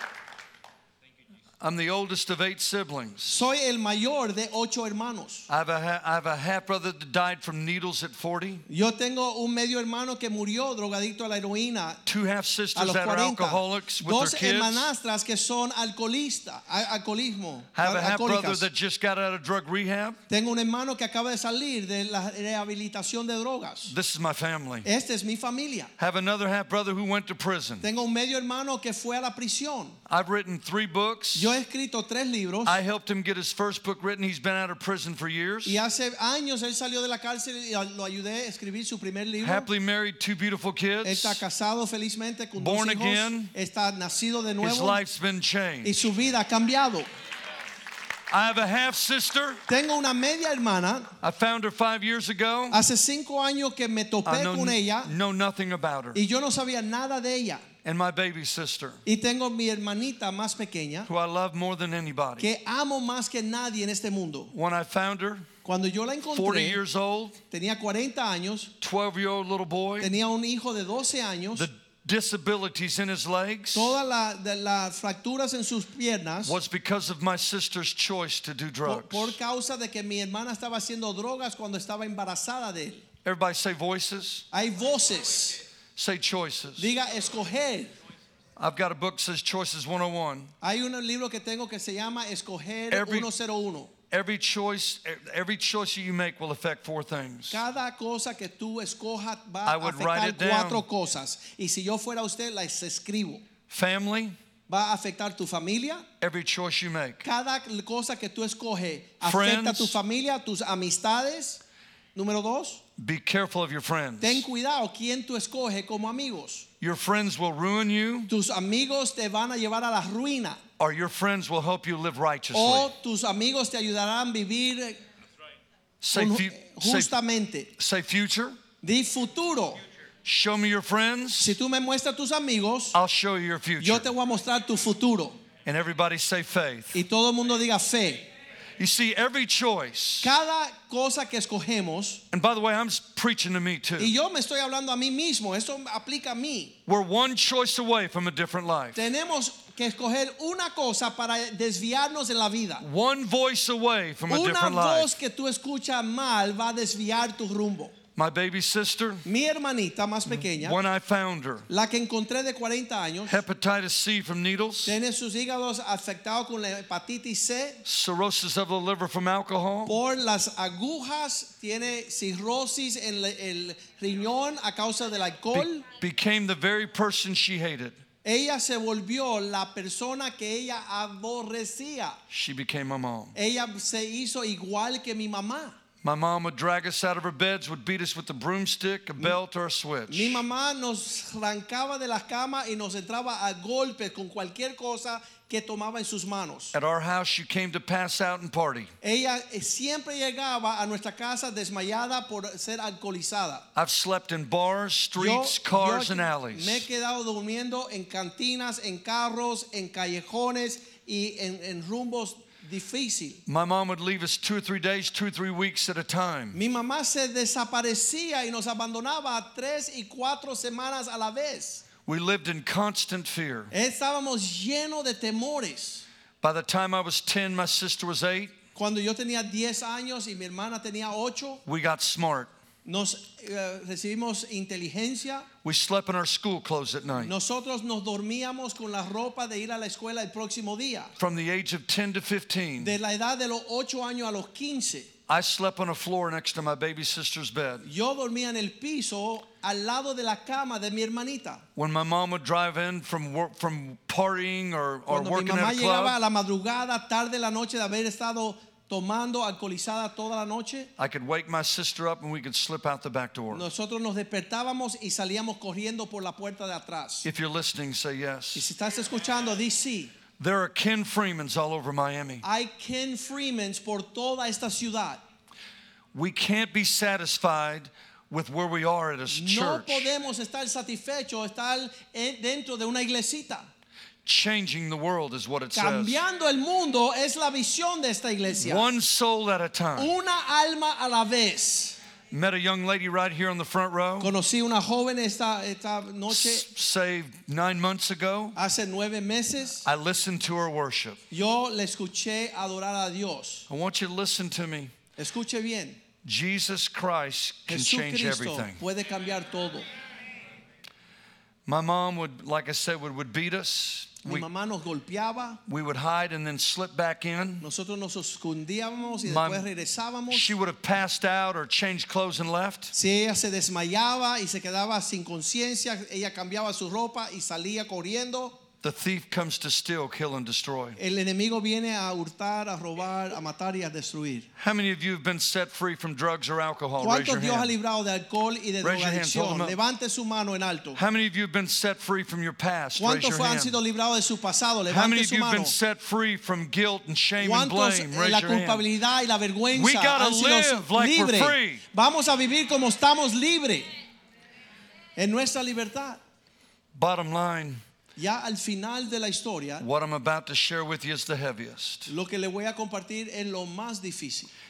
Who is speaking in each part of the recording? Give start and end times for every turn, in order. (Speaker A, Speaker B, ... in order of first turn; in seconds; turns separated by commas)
Speaker A: 1.6-3.4, Speaker B: 3.2-5.5, Speaker A: 5.5-8.7, Speaker B: 8.7-12.0, Speaker A: 12.1-14.9, Speaker B: 12.7-18.6, Speaker A: 17.7-20.2, Speaker B: 20.3-23.9, Speaker A: 23.9-24.9, Speaker B: 24.8-25.9, Speaker A: 26.0-27.9, Speaker B: 27.8-30.0, Speaker A: 30.1-31.6, Speaker B: 31.3-32.8, Speaker A: 32.6-35.8, Speaker B: 35.6-39.7, Speaker A: 39.4-41.4, Speaker B: 41.0-45.0, Speaker A: 42.5-43.5, Speaker A: 44.6-46.1, Speaker B: 45.8-47.1, Speaker A: 48.3-49.6, Speaker B: 49.7-51.1, Speaker A: 51.2-52.8, Speaker B: 52.7-55.1, Speaker A: 54.2-56.2, Speaker B: 56.1-57.6, Speaker A: 57.8-59.0, Speaker B: 59.0-61.1, Speaker A: 61.0-62.5, Speaker B: 62.4-64.5, Speaker A: 64.5-65.5, Speaker B: 65.6-66.8, Speaker A: 66.3-67.4, Speaker B: 67.5-68.7, Speaker A: 68.8-70.1, Speaker B: 70.0-71.7, Speaker A: 71.5-74.0, Speaker B: 73.7-76.6, Speaker A: 76.4-79.4, Speaker B: 78.8-83.0, Speaker A: 83.2-84.5, Speaker B: 84.5-85.6, Speaker A: 86.0-86.9, Speaker B: 86.8-87.9, Speaker A: 88.5-90.5, Speaker B: 90.6-93.9, Speaker A: 92.9-93.3, Speaker A: 94.1-97.6, Speaker B: 97.5-103.4, Speaker A: 99.6-100.8, Speaker A: 103.7-104.3, Speaker B: 104.7-106.0, Speaker A: 106.2-107.2, Speaker B: 107.2-111.6, Speaker A: 109.2-110.0, Speaker B: 112.1-112.8, Speaker A: 113.0-114.4, Speaker B: 114.2-116.7, Speaker A: 116.8-118.3, Speaker B: 118.3-120.6, Speaker A: 120.8-122.9, Speaker B: 122.5-125.0, Speaker A: 126.0-127.1, Speaker B: 126.1-127.7, Speaker A: 127.8-128.6, Speaker B: 128.8-129.8, Speaker A: 130.2-131.6, Speaker B: 131.4-133.0, Speaker A: 132.9-134.1, Speaker B: 133.8-135.4, Speaker A: 135.6-137.0, Speaker B: 136.9-138.3, Speaker A: 138.8-140.3, Speaker B: 140.2-142.2, Speaker A: 142.3-144.1, Speaker B: 144.0-146.8, Speaker A: 146.9-149.1, Speaker B: 148.9-152.8, Speaker A: 152.8-155.1, Speaker B: 154.3-157.9, Speaker A: 158.2-159.2, Speaker B: 159.2-160.8, Speaker A: 160.3-161.7, Speaker B: 161.7-163.4, Speaker A: 163.2-164.9, Speaker B: 164.8-167.8, Speaker A: 167.8-170.0, Speaker B: 169.8-175.8, Speaker A: 175.5-178.0, Speaker B: 178.2-182.2, Speaker A: 182.3-183.3, Speaker B: 183.3-185.8, Speaker A: 186.0-190.4, Speaker B: 190.1-196.7, Speaker A: 196.7-198.9, Speaker B: 199.0-203.7, Speaker A: 203.8-206.8, Speaker B: 205.2-213.4, Speaker A: 213.4-216.6, Speaker B: 216.5-221.8, Speaker A: 222.1-223.7, Speaker B: 223.7-226.0, Speaker A: 226.4-228.5, Speaker B: 228.7-231.6, Speaker A: 231.7-232.5, Speaker B: 232.8-235.5, Speaker A: 235.6-237.3, Speaker B: 237.2-241.1, Speaker A: 241.2-242.9, Speaker B: 242.8-245.1, Speaker A: 245.3-247.8, Speaker B: 247.8-251.6, Speaker A: 251.8-256.2, Speaker B: 255.1-260.9, Speaker A: 261.0-263.6, Speaker B: 263.5-267.3, Speaker A: 267.2-268.7, Speaker B: 268.5-270.1, Speaker A: 270.4-272.4, Speaker B: 272.4-275.2, Speaker A: 276.1-280.1, Speaker B: 279.3-283.7, Speaker A: 284.2-286.2, Speaker B: 285.7-288.9, Speaker A: 288.6-290.1, Speaker B: 289.9-292.0, Speaker A: 292.3-294.3, Speaker B: 294.2-296.6, Speaker A: 296.3-298.6, Speaker B: 298.6-299.9, Speaker A: 299.8-301.2, Speaker B: 301.3-303.7, Speaker A: 303.7-304.9, Speaker B: 305.2-306.0, Speaker A: 306.2-308.8, Speaker B: 307.7-309.9, Speaker A: 311.6-314.4, Speaker B: 314.2-315.6, Speaker A: 315.7-317.6, Speaker B: 317.6-320.6, Speaker A: 319.2-319.7, Speaker A: 320.3-322.9, Speaker B: 322.9-328.6, Speaker A: 328.8-331.0, Speaker B: 331.0-334.5, Speaker A: 334.6-337.7, Speaker B: 337.0-341.0, Speaker A: 338.8-339.8, Speaker A: 340.9-343.8, Speaker B: 343.0-345.7, Speaker A: 344.9-348.9, Speaker B: 347.4-353.9, Speaker A: 349.7-351.8, Speaker B: 355.2-356.2, Speaker A: 356.9-357.8, Speaker B: 358.2-359.8, Speaker A: 359.8-362.1, Speaker B: 362.1-364.5